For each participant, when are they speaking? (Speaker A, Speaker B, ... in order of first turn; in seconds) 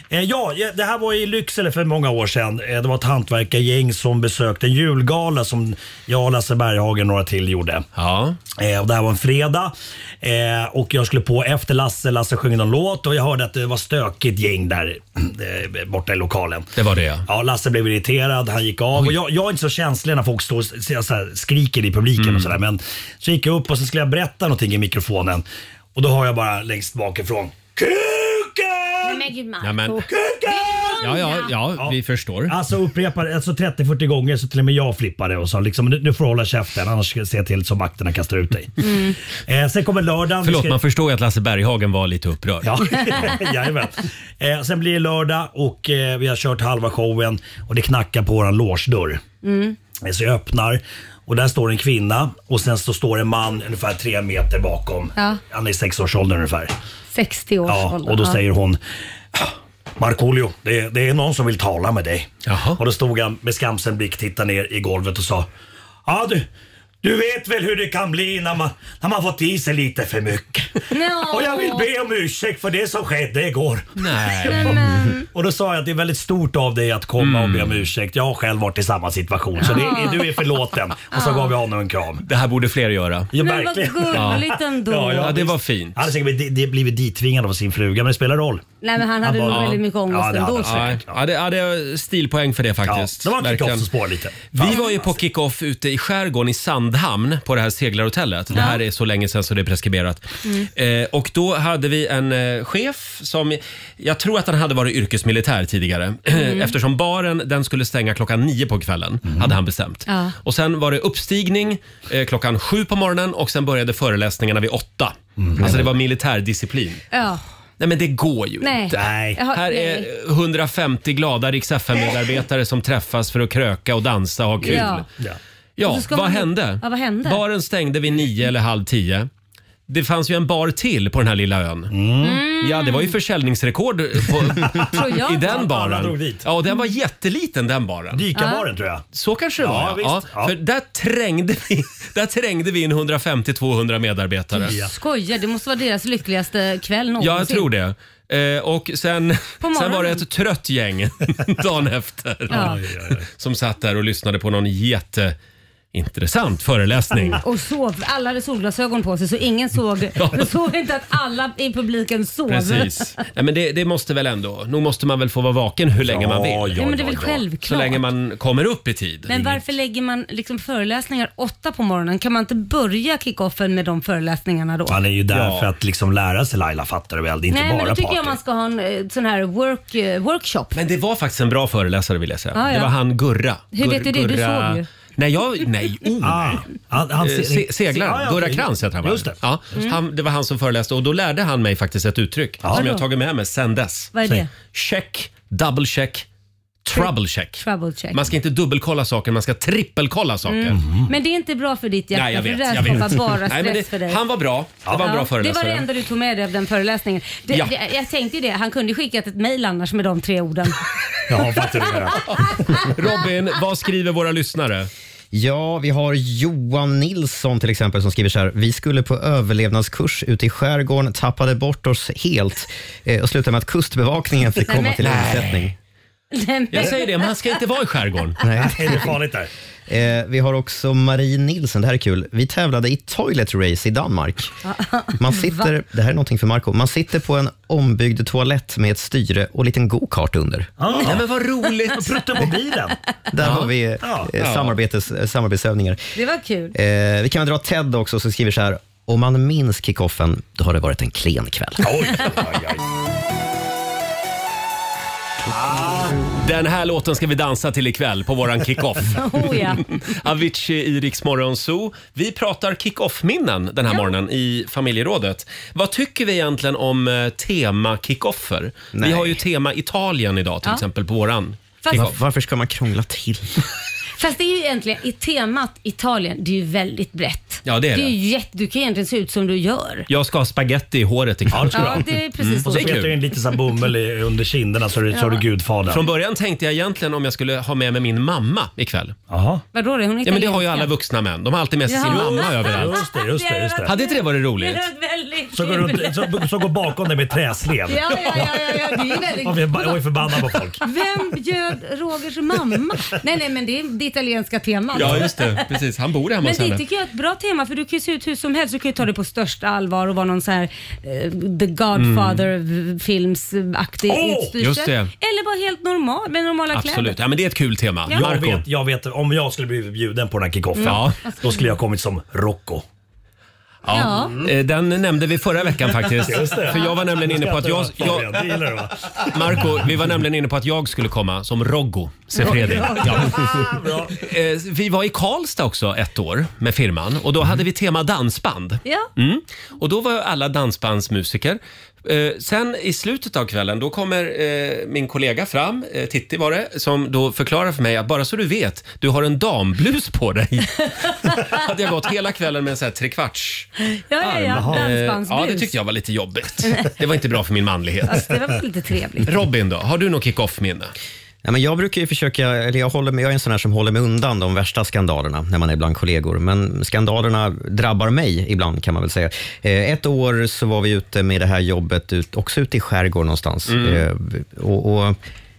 Speaker A: 0.1-7.9, 8.6-16.7, 17.3-29.3, 30.0-31.1, 31.7-38.7, 39.5-40.8, 42.6-49.2, 50.0-56.7, 57.7-58.8, 59.3-65.5, 66.1-66.5, 67.0-82.2, 83.3-88.6, 89.2-91.2, 92.9-95.2, 109.3-109.5, 115.4-115.9, 118.9-119.4, 124.6-125.4, 131.9-132.5, 134.4-136.5, 138.1-139.1, 139.6-140.6, 144.7-144.9, 152.5-153.2, 166.0-167.4, 174.9-178.4, 186.2-189.4, 200.7-201.1, 211.3-212.3, 228.6-229.5, 240.8-241.3, 241.9-243.0, 244.0-244.3, 251.8-252.8, 255.5-256.2, 281.5-282.1, 282.6-286.0, 289.3-289.6, 292.1-294.0, 295.5-300.8, 304.9-305.3, 314.1-314.6, 318.1-322.8, 326.1-329.8, 332.4-334.2, 354.4-354.9
Speaker B: 8.0-8.4, 16.8-17.3, 22.2-22.6, 29.6-30.0, 31.0-32.6, 40.4-43.3, 62.5-62.8, 74.0-74.8, 77.2-77.9, 82.2-83.3, 84.1-84.5, 85.2-86.0, 89.5-89.8, 90.6-93.9, 94.5-117.0, 117.8-125.0, 125.8-129.3, 129.9-131.9, 132.6-138.3, 139.1-144.8, 147.2-155.4, 155.9-157.4, 160.2-160.5, 162.5-166.9, 167.6-169.6, 175.3-175.7, 180.8-186.7, 187.2-196.3, 196.8-200.8, 202.1-205.9, 212.3-214.9, 226.7-228.4, 241.0-242.3, 243.4-243.7, 244.4-244.7, 256.4-272.1, 277.6-278.1, 280.1-283.2, 285.9-289.1, 290.2-293.0, 293.9-294.8, 304.9-306.8, 311.9-312.4, 314.6-315.1, 316.7-318.6, 320.8-321.2, 323.8-328.5, 329.2-353.7, 354.2-358.3, 359.3-360.9, 373.7-374.1
Speaker C: 29.0-31.5, 38.8-39.1, 49.4-49.8, 57.1-58.4, 70.9-71.9, 74.5-75.2, 79.6-80.3, 81.1-81.5, 83.4-85.4, 88.8-91.0, 94.7-95.0, 98.5-98.8, 106.3-106.7, 110.1-110.3, 117.1-117.4, 118.6-120.1, 124.7-125.0, 125.8-127.4, 132.2-133.2, 134.9-135.6, 138.3-138.6, 144.6-147.7, 149.6-150.2, 152.5-152.8, 157.3-163.1, 166.8-168.0, 169.3-175.0, 177.5-180.8, 182.6-182.9, 183.7-184.8, 192.7-193.0, 194.2-194.5, 196.9-198.2, 200.5-204.2, 205.0-210.8, 224.7-225.3, 226.3-227.6, 234.7-235.7, 246.2-246.8, 259.1-259.9, 271.8-272.1, 274.2-280.1, 281.7-283.0, 285.1-285.4, 289.7-290.9, 291.9-296.5, 297.9-300.0, 300.8-305.7, 306.4-317.2, 320.8-321.6, 323.9-324.4, 353.9-355.7, 356.6-356.9, 358.1-359.3
Speaker D: 215.3-225.8, 228.4-229.1, 229.9-234.5, 235.2-240.7, 243.3-246.1, 246.7-252.2, 268.9-269.4, 271.9-273.6, 361.4-375.2